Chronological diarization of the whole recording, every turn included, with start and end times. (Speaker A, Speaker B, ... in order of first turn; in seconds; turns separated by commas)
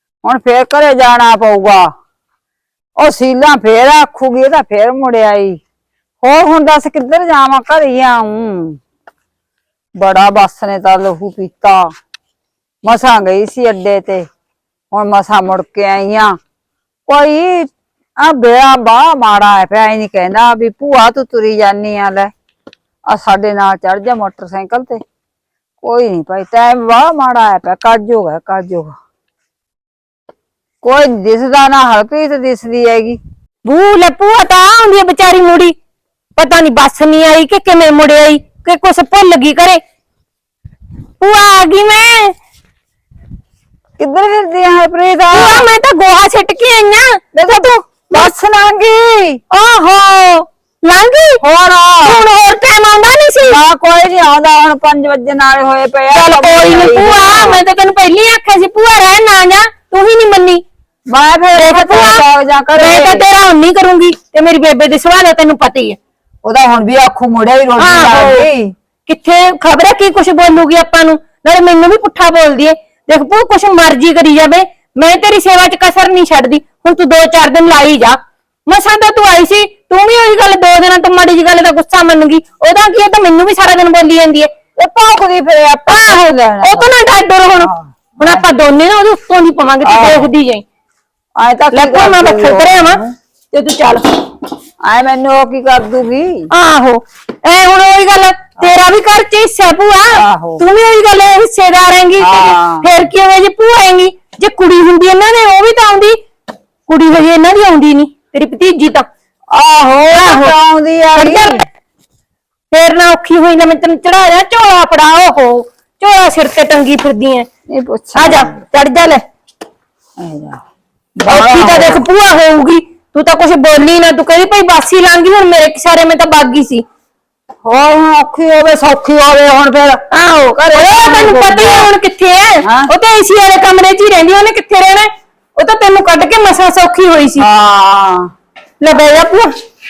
Speaker A: 0.2-1.9, Speaker A: 3.0-5.6, Speaker A: 6.2-8.8, Speaker A: 10.0-11.9, Speaker A: 12.8-14.3, Speaker A: 14.9-16.4, Speaker A: 17.1-22.3, Speaker A: 23.1-25.0, Speaker A: 25.8-28.9, Speaker A: 30.8-33.2, Speaker B: 33.6-35.8, Speaker B: 36.4-39.8, Speaker B: 41.2-42.3, Speaker A: 44.0-45.7, Speaker B: 45.3-48.3, Speaker A: 47.4-49.4, Speaker B: 49.5-51.4, Speaker A: 51.4-52.2, Speaker B: 52.0-53.6, Speaker A: 53.4-57.6, Speaker B: 56.1-60.6, Speaker A: 61.1-63.2, Speaker B: 61.5-62.2, Speaker B: 62.8-66.0, Speaker A: 66.4-68.7, Speaker B: 67.8-68.5, Speaker B: 69.0-84.5, Speaker A: 84.8-86.9, Speaker B: 85.9-90.6, Speaker A: 87.6-88.4, Speaker A: 89.8-90.3, Speaker A: 91.4-93.2, Speaker B: 91.7-93.0, Speaker B: 93.5-94.0, Speaker A: 94.8-96.5, Speaker B: 96.5-106.2, Speaker A: 100.1-100.6, Speaker A: 102.2-102.9, Speaker B: 106.9-109.1, Speaker A: 109.5-111.6, Speaker B: 110.1-110.5, Speaker B: 111.2-111.6, Speaker B: 112.7-117.5, Speaker A: 117.7-118.6, Speaker B: 118.2-119.2, Speaker A: 120.2-120.6, Speaker A: 121.2-122.0, Speaker B: 121.3-126.8, Speaker A: 127.7-130.0, Speaker B: 130.1-137.4, Speaker A: 130.6-131.9, Speaker A: 132.6-132.9, Speaker A: 137.4-138.3, Speaker B: 138.8-139.5